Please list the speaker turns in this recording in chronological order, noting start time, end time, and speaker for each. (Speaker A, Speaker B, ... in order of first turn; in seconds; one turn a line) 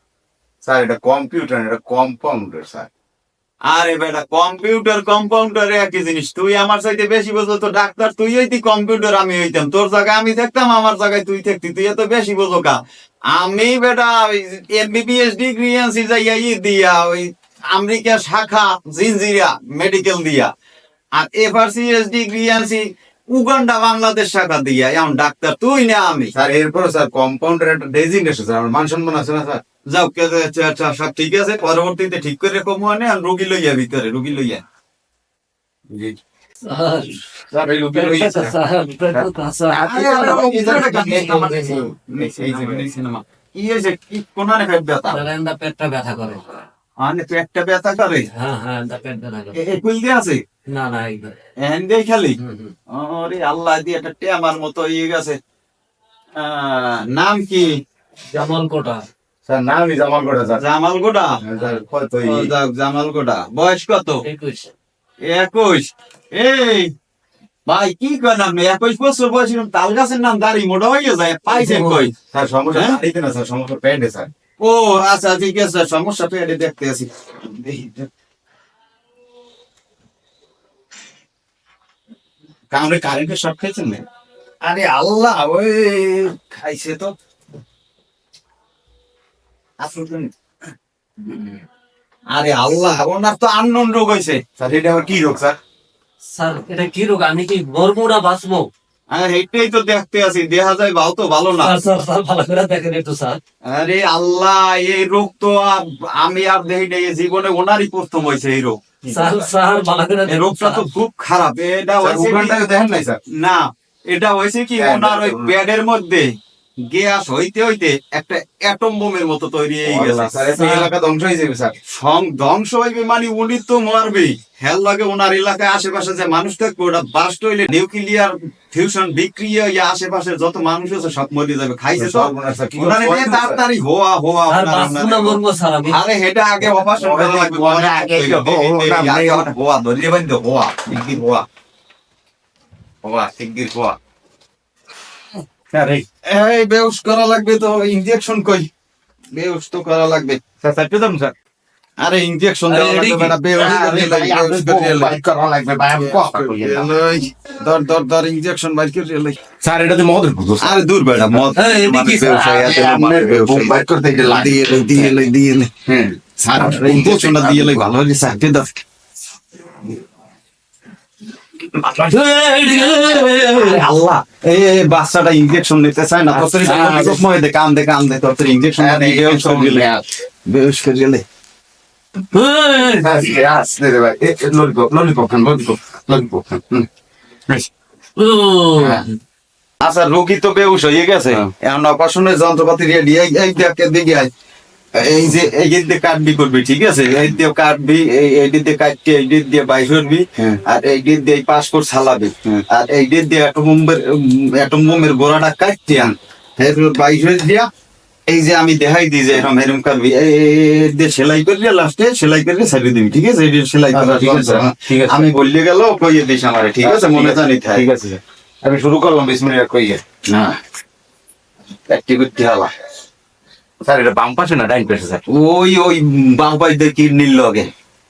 Speaker A: 0.6-2.9
Speaker B: 3.6-12.8
Speaker B: 13.3-20.5
Speaker B: 21.1-26.3
Speaker A: 26.3-29.6
Speaker B: 29.9-34.6
Speaker A: 35.9-36.2
Speaker C: 36.6-41.9
Speaker A: 37.5-38.5
Speaker A: 39.1-42.9
Speaker B: 39.8-45.2
Speaker C: 45.1-46.4
Speaker B: 47.0-48.3
Speaker C: 48.3-49.6
Speaker B: 49.5-50.4
Speaker C: 50.7-51.4
Speaker B: 51.6-52.4
Speaker C: 52.4-52.7
Speaker B: 52.9-55.4
Speaker B: 56.4-57.7
Speaker C: 58.3-59.0
Speaker A: 59.5-60.6
Speaker B: 60.6-61.4
Speaker A: 61.4-62.5
Speaker B: 62.2-64.2
Speaker C: 64.2-64.7
Speaker B: 65.2-66.9
Speaker B: 67.7-72.1
Speaker C: 71.5-72.1
Speaker A: 72.3-74.3
Speaker B: 72.7-73.0
Speaker B: 74.6-78.1
Speaker A: 82.7-84.0
Speaker B: 84.6-87.1
Speaker B: 89.8-90.3
Speaker B: 92.3-94.4
Speaker A: 94.6-95.6
Speaker C: 96.3-98.7
Speaker B: 99.1-101.7
Speaker C: 101.6-103.4
Speaker B: 103.6-108.9
Speaker C: 109.1-110.8
Speaker B: 110.2-112.7
Speaker A: 112.0-113.2
Speaker B: 113.4-116.3
Speaker A: 114.8-115.5
Speaker B: 116.9-120.8
Speaker A: 119.8-121.8
Speaker B: 121.9-141.4
Speaker A: 131.9-133.6
Speaker C: 134.5-136.0
Speaker A: 136.6-139.5
Speaker B: 143.0-143.9
Speaker A: 145.7-146.0
Speaker B: 146.1-148.7
Speaker B: 149.3-151.3
Speaker A: 150.6-151.3
Speaker B: 152.0-155.2
Speaker C: 152.7-153.3
Speaker A: 153.5-156.9
Speaker B: 156.0-159.4
Speaker A: 159.6-160.8
Speaker B: 160.6-165.7
Speaker C: 161.6-162.8
Speaker A: 162.3-165.3
Speaker A: 165.8-167.9
Speaker B: 166.5-168.7
Speaker B: 171.8-179.9
Speaker C: 172.0-173.8
Speaker A: 176.3-177.2
Speaker A: 178.8-180.0
Speaker B: 180.5-181.2
Speaker C: 182.3-183.1
Speaker A: 182.9-186.9
Speaker C: 188.2-189.2
Speaker A: 188.8-189.1
Speaker B: 189.8-194.3
Speaker B: 194.9-207.7
Speaker B: 208.3-217.9
Speaker A: 213.9-215.3
Speaker A: 216.8-220.6
Speaker A: 221.9-222.7
Speaker A: 223.8-225.2
Speaker B: 225.3-227.7